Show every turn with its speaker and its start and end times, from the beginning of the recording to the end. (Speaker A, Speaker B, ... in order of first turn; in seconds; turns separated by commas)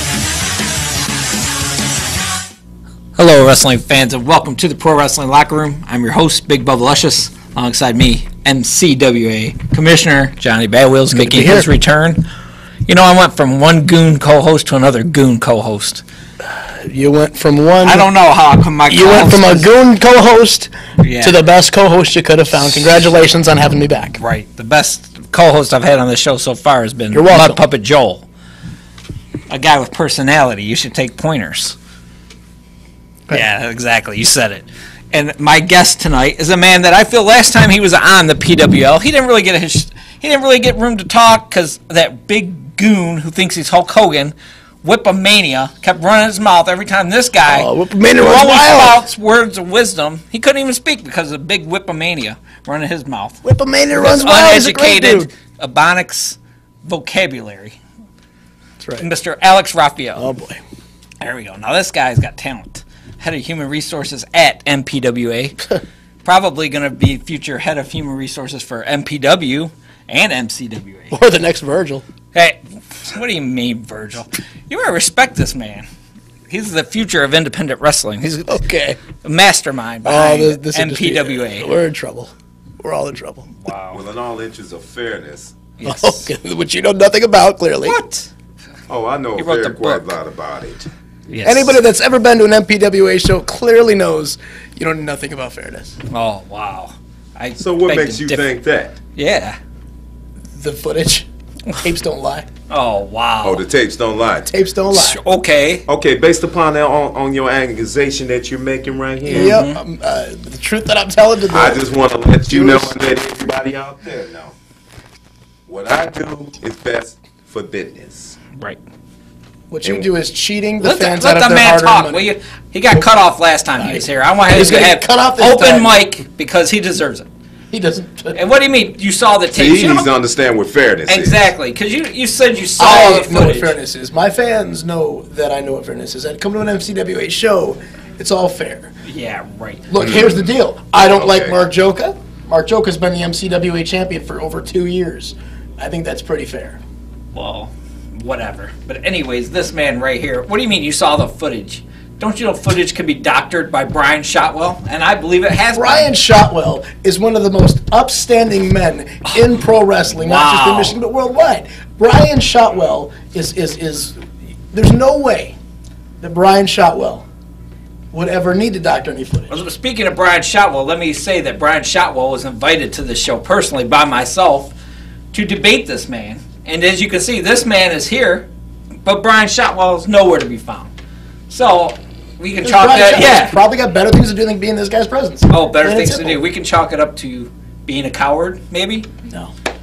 Speaker A: 3.1-12.3, Speaker B: 11.1-11.7, Speaker A: 12.9-16.0, Speaker B: 16.8-18.1, Speaker A: 17.8-19.6, Speaker B: 18.9-24.2, Speaker A: 21.0-21.4, Speaker A: 24.2-28.2, Speaker B: 27.1-27.6, Speaker A: 29.5-31.8, Speaker A: 33.3-53.4, Speaker B: 47.5-49.0, Speaker B: 53.4-55.3, Speaker A: 53.9-57.8, Speaker A: 59.0-60.3, Speaker B: 60.2-60.6, Speaker A: 61.2-65.6, Speaker A: 66.2-71.2, Speaker B: 71.1-72.0, Speaker A: 72.3-75.8, Speaker A: 76.5-81.7, Speaker B: 78.5-79.0, Speaker B: 80.0-83.5, Speaker A: 83.6-84.0, Speaker C: 83.9-85.6, Speaker A: 85.8-86.2, Speaker B: 85.8-88.0, Speaker A: 87.8-88.3, Speaker C: 88.9-90.9, Speaker A: 89.4-90.2, Speaker A: 91.3-91.7, Speaker B: 91.4-95.9, Speaker A: 96.1-98.5, Speaker C: 97.6-99.0, Speaker A: 99.1-99.6, Speaker B: 100.5-101.3, Speaker B: 101.8-102.5, Speaker A: 102.7-103.6, Speaker C: 103.4-104.5, Speaker B: 104.5-105.2, Speaker A: 104.9-105.8, Speaker C: 105.9-109.6, Speaker B: 109.3-111.8, Speaker A: 109.3-109.8, Speaker C: 111.5-114.5, Speaker B: 112.5-112.9, Speaker C: 115.7-118.4, Speaker B: 119.7-122.2, Speaker A: 120.8-127.3, Speaker B: 123.8-125.9, Speaker B: 127.7-128.4, Speaker A: 128.3-130.1, Speaker C: 129.5-131.4, Speaker A: 131.1-133.7, Speaker B: 132.8-138.9, Speaker A: 139.0-139.9, Speaker B: 139.9-146.8, Speaker C: 140.0-140.4, Speaker C: 141.0-141.6, Speaker A: 147.3-156.1, Speaker B: 155.8-164.2, Speaker A: 160.1-160.9, Speaker B: 164.7-165.6, Speaker B: 166.2-167.2, Speaker B: 168.1-169.5, Speaker A: 169.5-174.7, Speaker A: 175.3-178.5, Speaker A: 179.0-180.9, Speaker A: 181.5-183.5, Speaker B: 182.6-186.4, Speaker A: 185.5-189.1